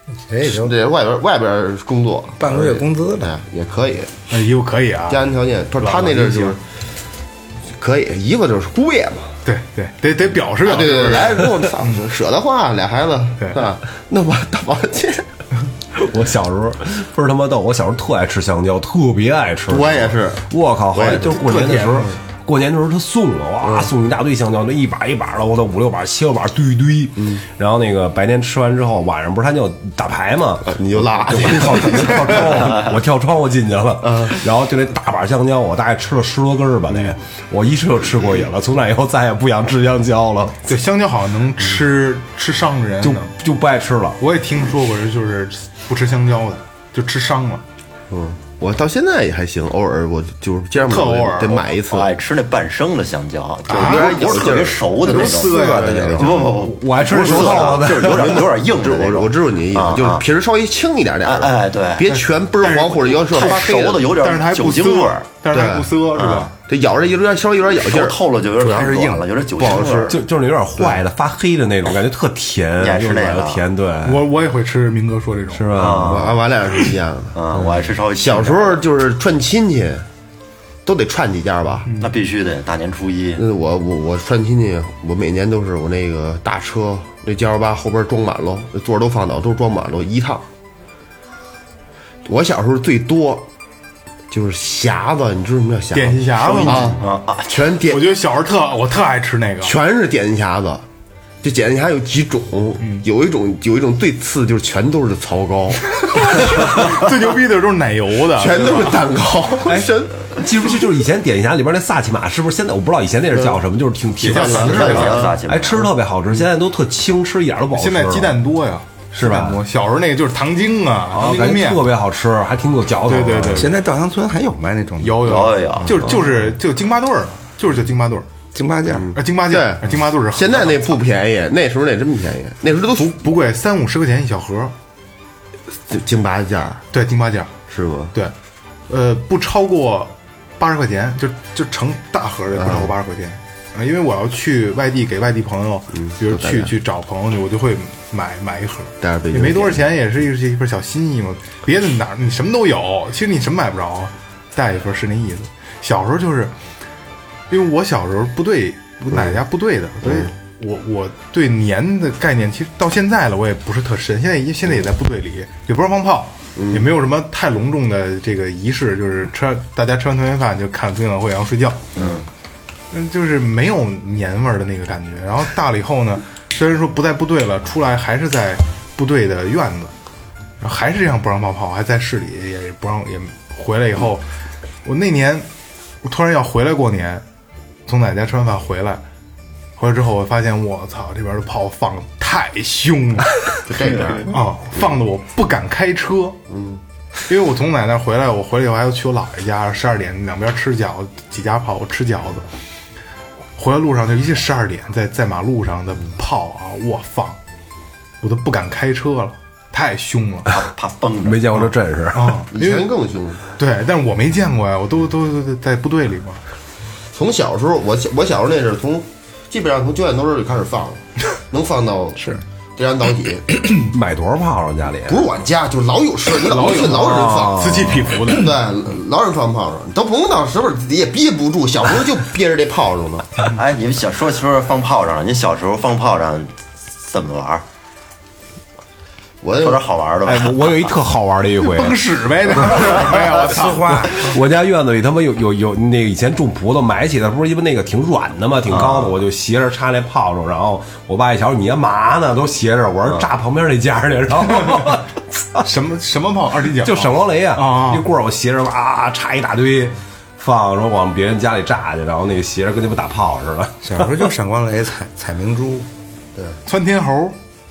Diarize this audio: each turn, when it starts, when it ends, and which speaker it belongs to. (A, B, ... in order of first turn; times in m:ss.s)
0:00.3-0:00.7 A
0:00.4-0:04.1 B
0:02.4-0:03.3 A
0:04.3-0:06.6 C
0:05.1-0:06.6 B
0:07.8-0:09.4 B
0:09.4-0:12.0 C
0:10.6-0:15.3 B
0:15.9-0:40.6 D
0:19.7-0:21.5 B
0:21.1-0:22.1 C
0:23.6-0:23.9 B
0:30.6-0:32.4 B
0:34.0-0:34.4 B
0:40.7-0:43.3 C
0:43.0-0:44.2 D
0:44.2-0:47.6 C
0:48.1-0:52.1 B
0:50.8-0:51.6 C
0:51.9-1:00.2 E
0:53.7-0:54.4 C
0:53.7-0:56.5 B
0:55.0-0:56.6 C
0:56.6-0:58.4 D
0:57.0-1:04.1 B
1:01.2-1:02.1 E
1:02.1-1:06.5 C
1:03.2-1:05.2 E
1:05.5-1:05.9 B
1:06.1-1:06.5 E
1:06.7-1:08.2 B
1:07.8-1:10.2 E
1:08.6-1:09.2 A
1:09.6-1:10.2 B
1:10.0-1:14.3 D
1:12.8-1:13.6 E
1:14.0-1:15.7 C
1:15.5-1:16.3 D
1:15.7-1:16.4 E
1:16.0-1:17.4 B
1:17.3-1:18.8 E
1:17.5-1:17.8 D
1:18.2-1:20.0 B
1:20.8-1:21.9 B
1:22.0-1:23.4 E
1:23.4-1:30.4 B
1:32.2-1:33.5 B
1:34.3-1:38.1 B
1:35.9-1:37.0 C
1:36.4-1:37.5 E
1:37.8-1:39.7 C
1:39.6-1:40.8 B
1:41.4-1:46.7 B
1:42.8-1:43.0 C
1:46.0-1:48.9 C
1:48.3-1:50.3 B
1:50.3-1:58.4 D
1:54.2-1:55.4 C
1:54.3-1:55.9 E
1:54.3-1:55.0 B
1:57.7-2:01.8 C
1:59.2-1:59.6 D
2:01.1-2:03.7 D
2:03.0-2:03.7 C
2:03.5-2:05.3 A
2:05.0-2:08.3 C
2:05.2-2:06.2 E
2:08.5-2:09.2 A
2:08.9-2:13.1 B
2:09.1-2:10.9 C
2:12.9-2:14.7 C
2:15.9-2:16.8 B
2:16.9-2:17.5 C
2:17.7-2:18.1 B
2:18.9-2:36.5 C
2:22.6-2:22.9 B
2:25.9-2:26.7 B
2:29.0-2:29.8 B
2:37.5-2:51.9 C
2:40.0-2:40.3 B
2:46.6-2:46.8 B
2:52.0-2:52.2 E
2:52.9-2:59.9 C
3:00.6-3:04.3 C
3:04.8-3:05.5 C
3:06.0-3:07.2 C
3:07.9-3:09.0 C
3:09.8-3:13.4 C
3:13.6-3:14.3 B
3:13.8-3:14.3 E
3:14.2-3:16.4 C
3:16.5-3:16.8 B
3:17.3-3:22.5 C
3:23.6-3:27.4 C
3:28.2-3:30.5 C
3:30.5-3:31.6 E
3:31.2-3:32.4 D
3:31.6-3:32.9 C
3:32.5-3:33.4 B
3:33.6-3:36.4 C
3:37.1-3:43.5 B
3:43.7-3:45.2 D
3:45.0-3:53.4 B
3:46.5-3:48.5 C
3:46.7-3:48.1 D
3:53.4-3:57.6 E
3:59.4-3:59.8 B
3:59.6-4:00.9 E
4:00.2-4:02.0 D
4:01.6-4:04.3 C
4:02.5-4:03.1 D
4:03.4-4:04.1 A
4:03.7-4:15.6 D
4:08.7-4:09.1 E
4:15.6-4:18.1 C
4:16.8-4:24.3 D
4:23.8-4:25.9 A
4:26.6-4:27.4 C